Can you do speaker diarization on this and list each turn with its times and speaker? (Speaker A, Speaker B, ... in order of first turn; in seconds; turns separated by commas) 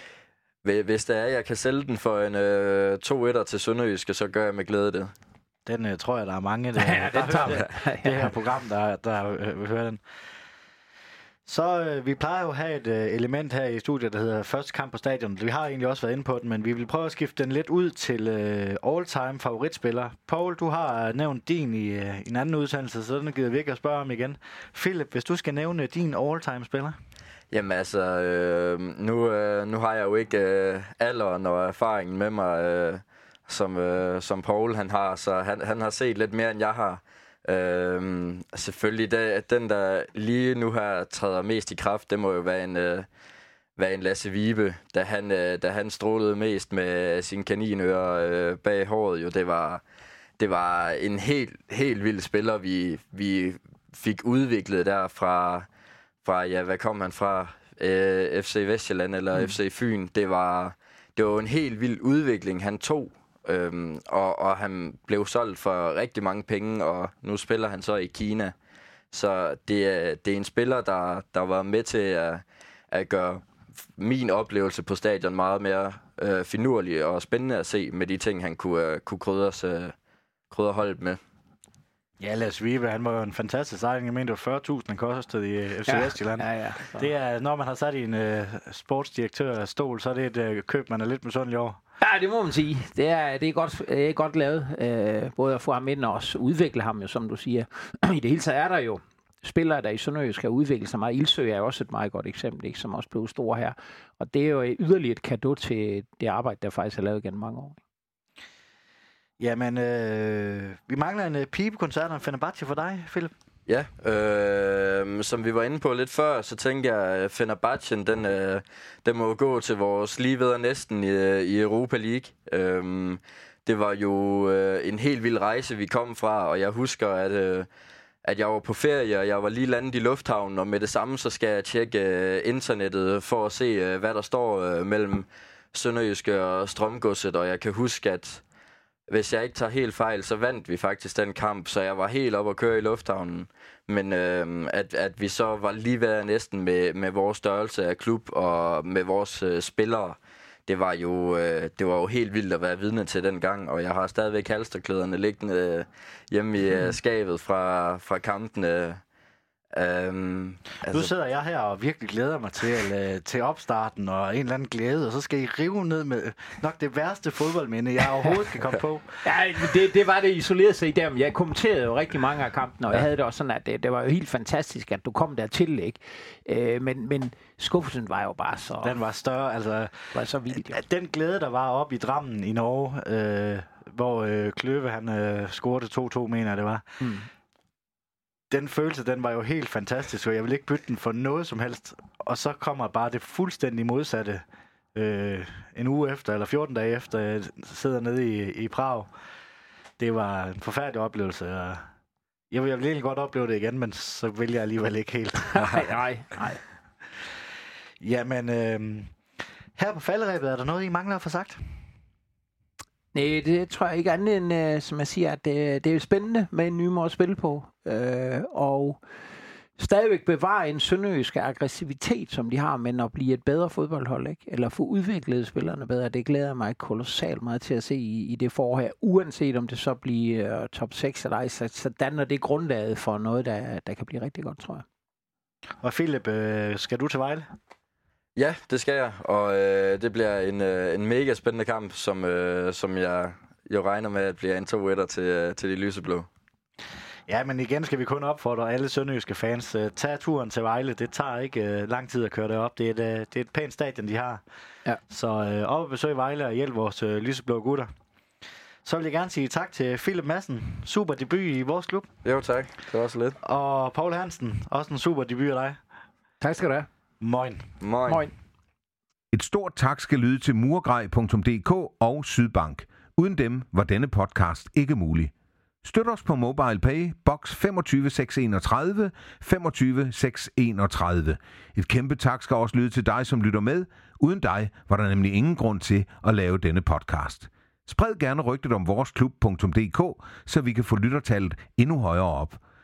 Speaker A: 0.6-5.1, Speaker B: 5.7-10.0, Speaker C: 6.8-8.3, Speaker B: 11.4-26.9, Speaker A: 27.5-43.1, Speaker A: 43.8-49.8, Speaker A: 50.4-55.7, Speaker A: 56.2-68.5, Speaker A: 69.1-73.4, Speaker A: 74.0-79.9, Speaker A: 80.5-81.2, Speaker B: 82.2-91.8, Speaker C: 85.9-87.1, Speaker C: 92.0-107.8, Speaker B: 109.4-113.3, Speaker A: 113.7-127.7, Speaker A: 128.2-138.4, Speaker A: 139.1-159.0, Speaker A: 159.7-161.1, Speaker B: 160.9-169.2, Speaker C: 169.2-179.0, Speaker B: 178.8-186.8, Speaker C: 180.1-180.8, Speaker C: 187.0-187.3, Speaker B: 188.5-194.4, Speaker B: 194.9-199.1, Speaker B: 200.0-201.8, Speaker B: 202.5-205.8, Speaker C: 205.5-206.6, Speaker B: 208.0-209.1, Speaker B: 209.7-211.6, Speaker C: 213.1-219.0, Speaker C: 219.8-234.8, Speaker B: 235.8-237.4, Speaker A: 238.3-246.3, Speaker B: 247.3-254.4, Speaker B: 255.1-257.9, Speaker B: 258.8-262.1, Speaker A: 262.2-263.4, Speaker B: 263.4-265.8, Speaker C: 266.4-266.9, Speaker B: 267.2-267.6, Speaker A: 267.8-268.3, Speaker C: 268.1-268.3, Speaker D: 269.3-275.3, Speaker D: 275.8-292.6